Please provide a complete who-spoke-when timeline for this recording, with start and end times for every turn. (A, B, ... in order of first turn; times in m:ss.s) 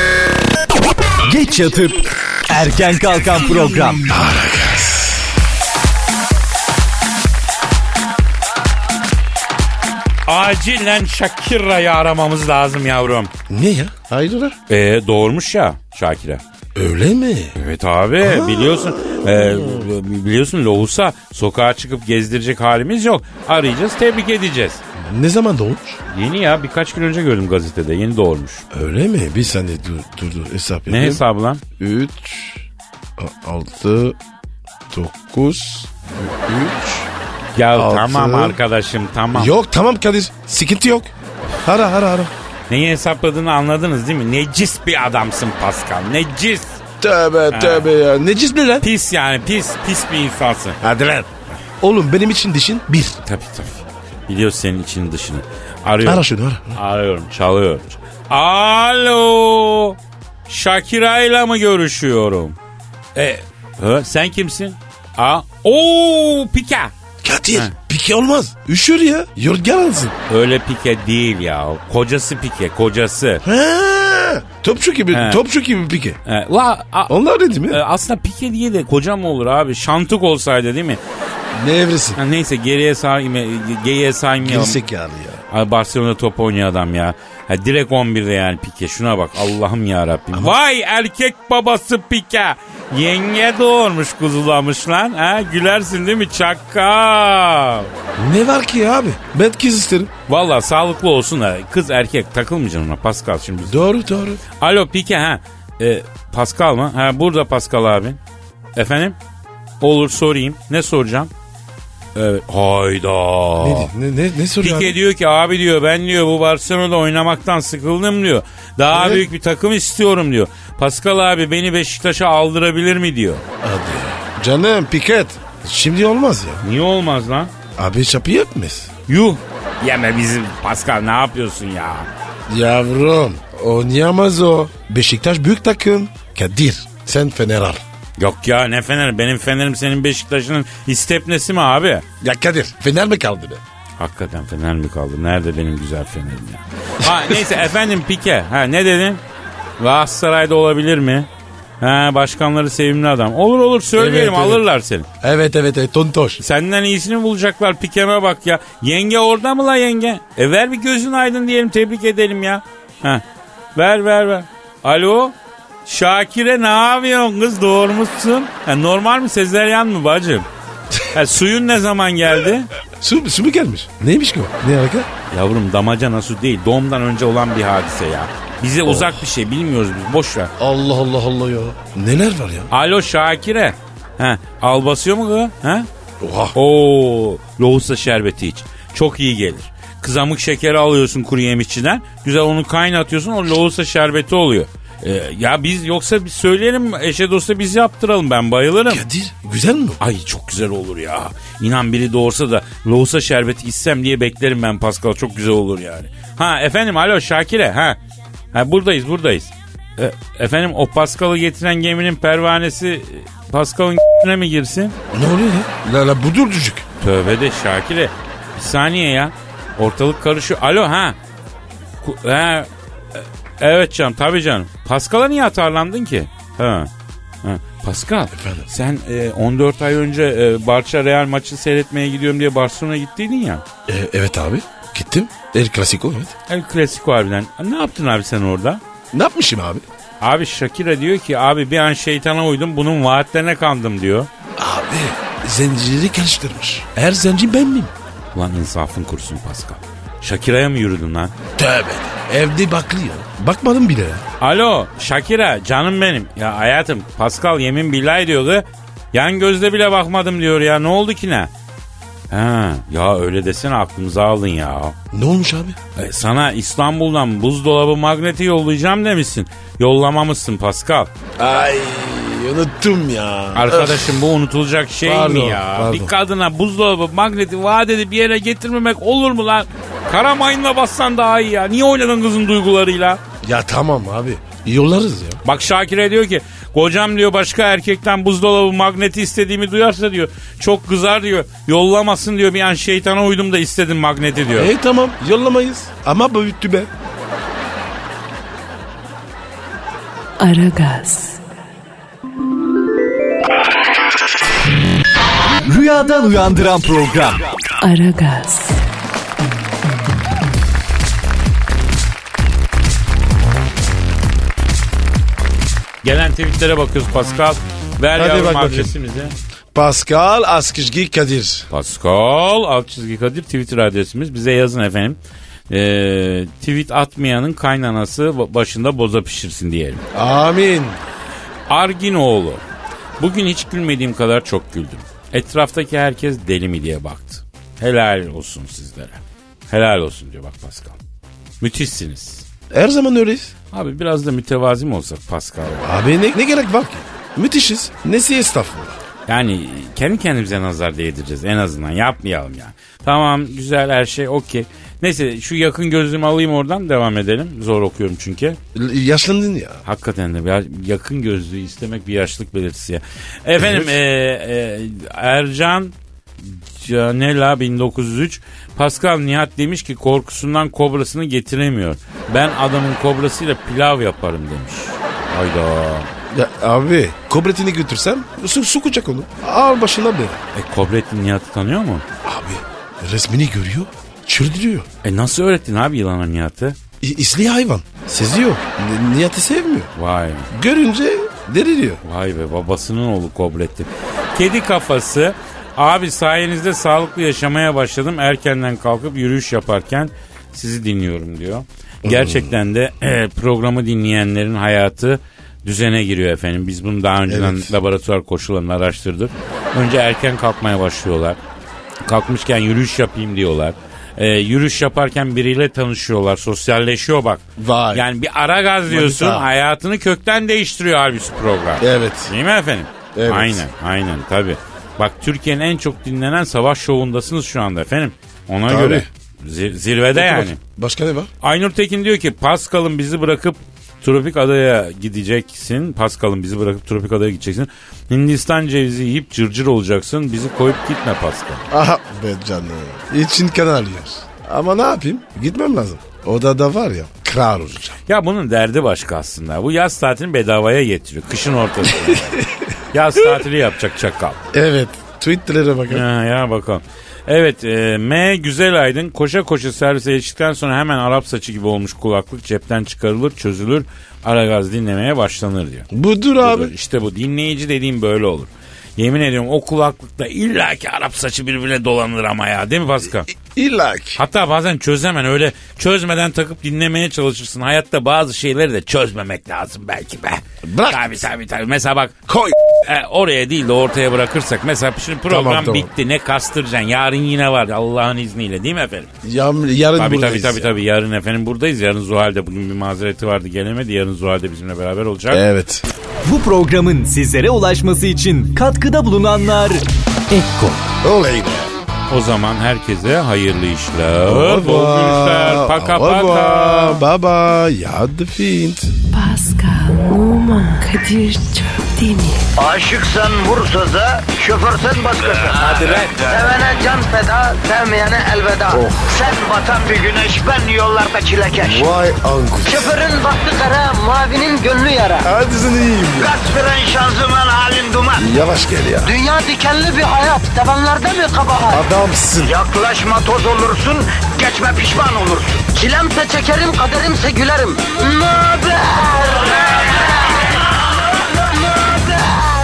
0:01.2-0:04.1 A
0:04.1-0:05.3 B
0:10.3-0:13.3 C
0:13.5-0:14.6 B
0:14.7-0:16.4 C
0:16.7-0:17.6 B
0:17.5-0:24.8 C
0:18.2-0:19.9 B
0:25.0-0:26.0 B
0:26.1-0:28.6 C
0:28.7-0:31.2 B
0:30.9-0:31.6 C
0:31.8-0:32.6 B
0:33.2-0:34.2 B
0:34.9-0:37.1 B
0:37.5-0:39.5 C
0:37.7-0:38.6 B
0:39.3-0:41.1 B
0:41.6-0:42.3 B
0:42.7-0:46.8 C
0:47.0-0:48.9 B
0:47.5-0:47.9 C
0:48.8-0:50.8 C
0:50.8-0:51.3 B
0:51.8-0:53.2 B
0:53.2-1:02.6 C
0:56.0-0:56.8 B
1:03.1-1:06.9 C
1:07.2-1:10.2 B
1:10.3-1:13.4 C
1:13.4-1:16.2 B
1:15.1-1:15.4 C
1:16.2-1:17.1 C
1:17.1-1:17.8 B
1:17.7-1:21.0 C
1:21.5-1:22.2 B
1:22.2-1:24.8 C
1:24.4-1:25.4 B
1:25.5-1:37.9 C
1:38.2-1:40.1 B
1:40.3-1:43.8 C
1:43.7-1:44.4 B
1:44.6-1:48.2 C
1:48.8-1:49.2 C
1:49.8-1:51.3 C
1:52.1-1:53.9 C
1:53.6-1:54.9 B
1:54.6-2:03.4 C
1:58.9-1:59.2 B
2:03.6-2:06.6 B
2:06.6-2:07.5 C
2:07.8-2:08.9 B
2:09.1-2:12.1 C
2:12.5-2:17.8 B
2:18.2-2:22.0 C
2:22.2-2:23.6 B
2:24.0-2:29.2 C
2:29.8-2:31.3 C
2:31.8-2:35.1 C
2:33.9-2:34.6 B
2:35.2-2:36.4 B
2:36.4-2:43.2 C
2:43.7-2:45.3 C
2:45.8-2:50.5 C
2:51.1-2:52.7 C
2:53.0-2:55.1 B
2:55.3-3:00.5 C
2:58.8-2:59.2 B
3:00.6-3:02.7 B
3:02.7-3:05.9 C
3:06.2-3:06.6 B
3:06.5-3:19.0 C
3:18.9-3:20.0 B
3:20.0-3:28.0 C
3:28.5-3:35.0 C
3:35.1-3:36.8 B
3:37.0-3:41.2 C
3:42.0-3:46.9 C
3:47.4-3:53.6 C
3:48.3-3:48.7 B
3:53.9-3:56.3 B
3:56.5-3:58.8 C
3:59.1-3:59.8 B
4:00.2-4:04.3 C
4:04.6-4:07.9 B
4:08.3-4:11.3 C
4:11.6-4:14.2 B
4:14.4-4:21.5 C
4:22.3-4:25.0 C
4:25.1-4:25.8 B
4:26.0-4:31.1 C
4:31.4-4:34.1 B
4:33.5-4:43.2 C
4:35.0-4:36.1 B
4:43.4-4:45.4 B
4:45.4-4:54.7 C
4:54.6-4:56.9 B
5:00.4-5:01.4 D
5:05.6-5:07.4 A
5:07.8-5:08.8 D
5:16.0-5:19.4 C
5:18.1-5:18.9 B
5:19.7-5:21.7 B
5:21.7-5:25.2 C
5:25.7-5:30.0 C
5:30.1-5:31.0 B
5:31.7-5:32.6 C
5:33.2-5:41.0 C
5:41.6-5:42.4 C
5:42.7-5:43.5 B
5:43.7-5:45.8 C
5:45.8-5:49.0 B
5:49.3-5:58.6 C
5:58.7-5:59.8 B
5:59.8-6:16.1 C
6:03.6-6:03.9 B
6:16.3-6:20.4 B
6:20.5-6:22.0 C
6:22.2-6:24.9 B
6:25.0-6:26.8 C
6:27.0-6:29.9 B
6:29.9-6:30.5 C
6:30.5-6:32.0 B
6:32.0-6:51.4 C
6:42.0-6:42.5 B
6:47.3-6:47.7 B
6:52.0-7:10.6 C
6:57.6-6:58.1 B
6:58.9-6:59.4 B
7:01.8-7:02.3 B
7:03.1-7:03.6 B
7:08.7-7:09.1 B
7:10.1-7:11.3 B
7:11.4-7:21.7 C
7:21.7-7:28.0 B
7:28.1-7:34.4 C
7:31.9-7:32.6 B
7:34.5-7:36.0 B
7:35.9-7:45.9 C
7:45.9-7:46.7 B
7:46.4-7:53.3 C
7:53.3-7:54.2 B
7:54.2-8:02.1 C
8:00.6-8:01.1 B
8:02.3-8:02.6 B
8:02.8-8:09.1 C
8:05.3-8:05.9 B
8:09.2-8:10.8 B
8:10.0-8:15.4 C
8:15.3-8:15.8 B
8:16.2-8:20.8 A
8:20.8-8:21.7 B
8:22.1-8:27.0 C
8:24.2-8:28.9 B
8:29.1-8:32.4 D
8:32.6-8:42.0 E
8:35.7-8:36.2 C
8:38.7-8:39.1 B
8:41.6-8:43.0 B
8:42.6-8:45.3 E
8:45.2-8:46.3 B
8:46.2-8:48.2 E
8:48.2-8:49.1 B
8:49.0-8:51.8 E
8:51.7-8:52.5 B
8:52.4-9:00.0 E
9:01.7-9:02.4 E